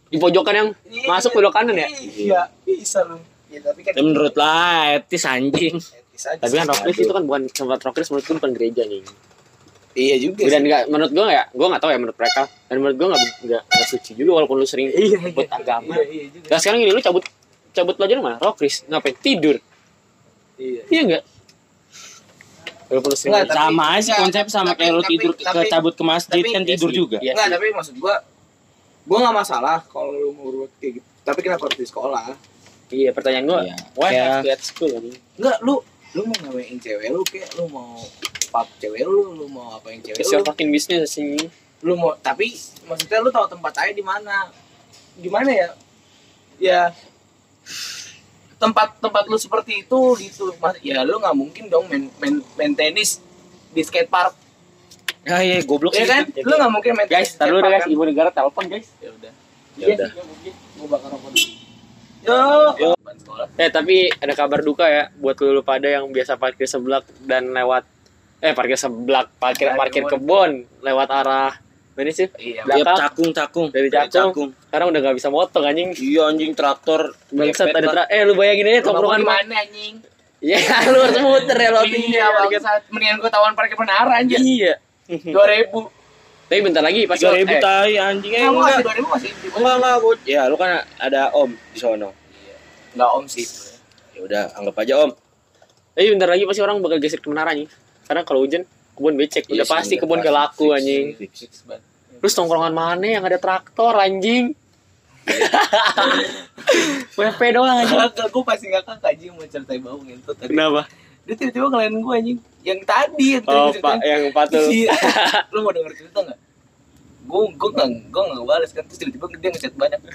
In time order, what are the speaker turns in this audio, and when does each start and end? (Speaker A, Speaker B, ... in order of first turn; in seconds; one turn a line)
Speaker A: 0.1-1.9
Speaker B: 0.9-4.4
Speaker C: 2.1-2.4
Speaker C: 4.0-5.9
Speaker B: 5.9-6.8
Speaker A: 6.4-9.1
Speaker C: 6.6-7.1
Speaker B: 10.0-10.8
Speaker A: 10.4-19.6
Speaker B: 14.9-16.7
Speaker B: 20.6-20.9
Speaker A: 20.9-21.2
Speaker A: 22.9-23.6
Speaker B: 23.2-25.8
Speaker C: 23.4-27.3
Speaker B: 26.3-28.2
Speaker A: 27.2-27.6
Speaker B: 29.1-32.4
Speaker A: 32.9-35.2
Speaker C: 33.5-34.5
Speaker B: 35.4-40.5
Speaker A: 40.2-41.5
Speaker B: 41.8-44.5
Speaker B: 45.2-45.7
Speaker B: 46.6-46.9
Speaker B: 48.6-53.2
Speaker B: 53.7-54.3
Speaker C: 55.3-56.4
Speaker B: 55.9-58.0
Speaker A: 56.4-58.9
Speaker B: 59.0-61.5
Speaker A: 59.8-60.1
Speaker B: 62.2-63.5
Speaker C: 62.3-63.0
Speaker A: 63.6-67.8
Speaker A: 68.4-73.0
Speaker B: 69.6-70.5
Speaker B: 72.4-72.9
Speaker C: 72.7-74.5
Speaker A: 73.7-76.0
Speaker C: 76.0-78.0
Speaker A: 77.3-79.4
Speaker B: 78.8-80.0
Speaker A: 80.4-82.6
Speaker B: 80.9-84.5
Speaker A: 84.3-84.8
Speaker C: 85.1-85.4
Speaker B: 85.3-85.9
Speaker A: 86.5-87.7
Speaker C: 87.1-88.9
Speaker B: 88.4-90.0
Speaker C: 89.5-92.2
Speaker B: 92.3-93.8
Speaker C: 94.2-95.2
Speaker A: 96.0-101.2
Speaker C: 99.5-101.5
Speaker B: 101.4-102.7
Speaker A: 102.2-104.5
Speaker A: 105.3-108.1
Speaker B: 105.3-107.2
Speaker B: 107.8-110.7
Speaker A: 110.5-110.9
Speaker B: 111.3-116.4
Speaker A: 113.5-114.0
Speaker C: 113.7-114.8
Speaker A: 114.9-115.4
Speaker B: 117.2-120.0